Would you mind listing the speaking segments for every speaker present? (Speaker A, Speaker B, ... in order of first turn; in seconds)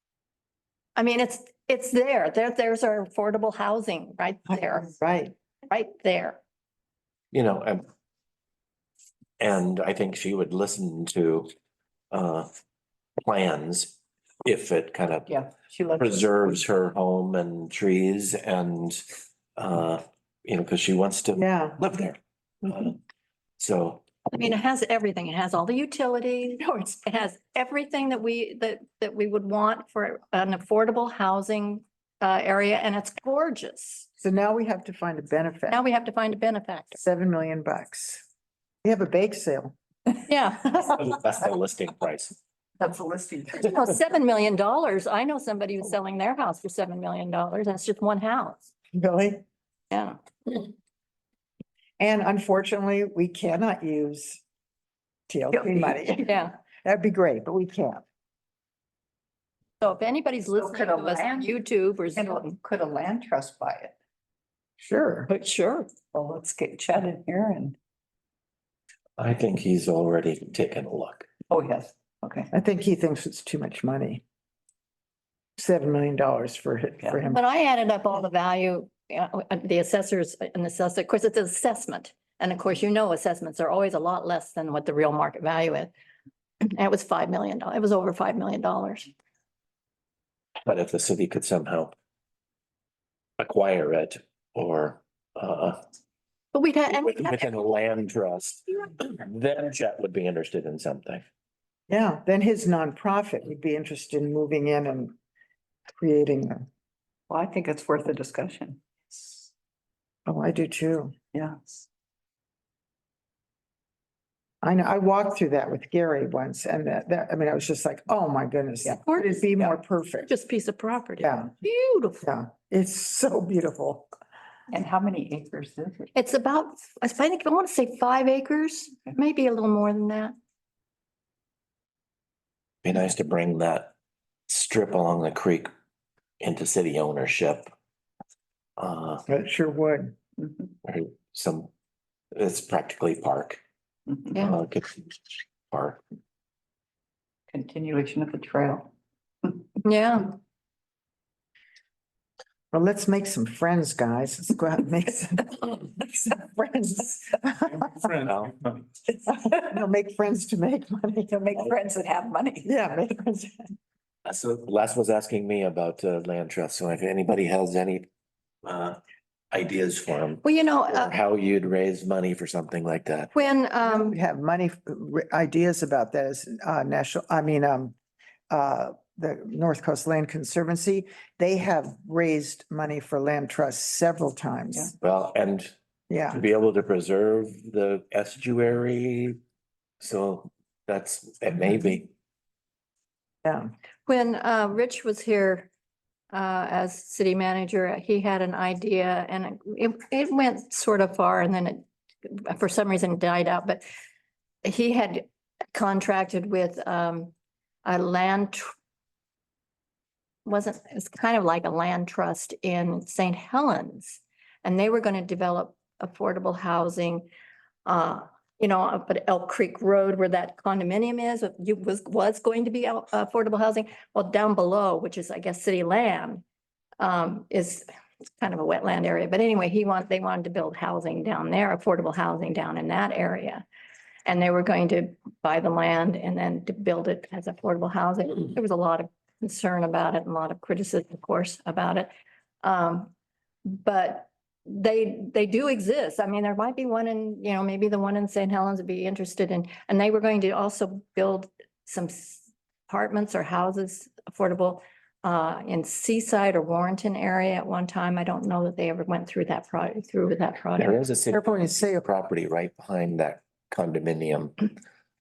Speaker A: 1.0-4.9, 5.7-6.4, 24.3-34.1, 35.7-37.0, 40.3-41.0, 43.5-48.6, 49.9-50.7, 56.2-56.5, 59.8-62.5, 65.3-65.9, 77.2-85.9, 86.6-89.1, 96.5-97.5, 119.1-119.4, 120.3-122.3, 126.1-130.3, 149.8-150.3, 170.4-171.2, 173.3-174.2, 194.1-195.7, 196.3-203.8, 204.6-207.3, 207.8-208.7, 210.4-217.3, 217.8-226.4, 227.0-227.9, 228.4-233.7, 234.3-242.1, 242.6-243.1, 243.7-261.0
Speaker B: 4.9-5.3, 21.4-21.8, 34.2-35.8, 36.9-38.2, 38.8-39.8, 48.9-49.4, 52.0-54.4, 55.3-58.0, 64.8-65.3, 72.5-74.2, 75.6-77.4, 101.9-105.2, 106.0-106.7, 110.3-111.1, 114.6-120.3, 121.2-121.5, 122.2-124.1, 139.3-140.2, 152.7-158.2, 159.3-161.7, 162.6-163.7, 173.8-177.9, 178.5-184.9, 186.1-186.4, 193.4-193.7, 261.3-262.0
Speaker C: 7.3-7.8, 9.4-11.5, 12.1-12.5, 13.2-15.3, 15.9-23.0, 23.6-24.0, 41.0-42.4, 69.2-71.3, 90.6-92.0, 93.4-95.8, 96.9-101.2, 132.8-133.9, 134.5-135.7, 136.4-137.7, 138.8-139.2, 140.8-141.7, 142.3-143.6, 144.4-146.0, 158.2-158.8, 164.2-168.1, 168.6-169.0, 169.5-173.3, 185.0-185.7, 186.3-189.4, 190.0-192.1, 260.8-264.7
Speaker D: 15.3-16.6, 42.8-43.7, 60.6-61.5, 62.1-64.0, 66.1-67.8, 71.5-72.5, 107.3-109.5, 111.3-111.8, 124.7-126.1, 140.4-140.7, 147.5-148.9, 161.3-162.7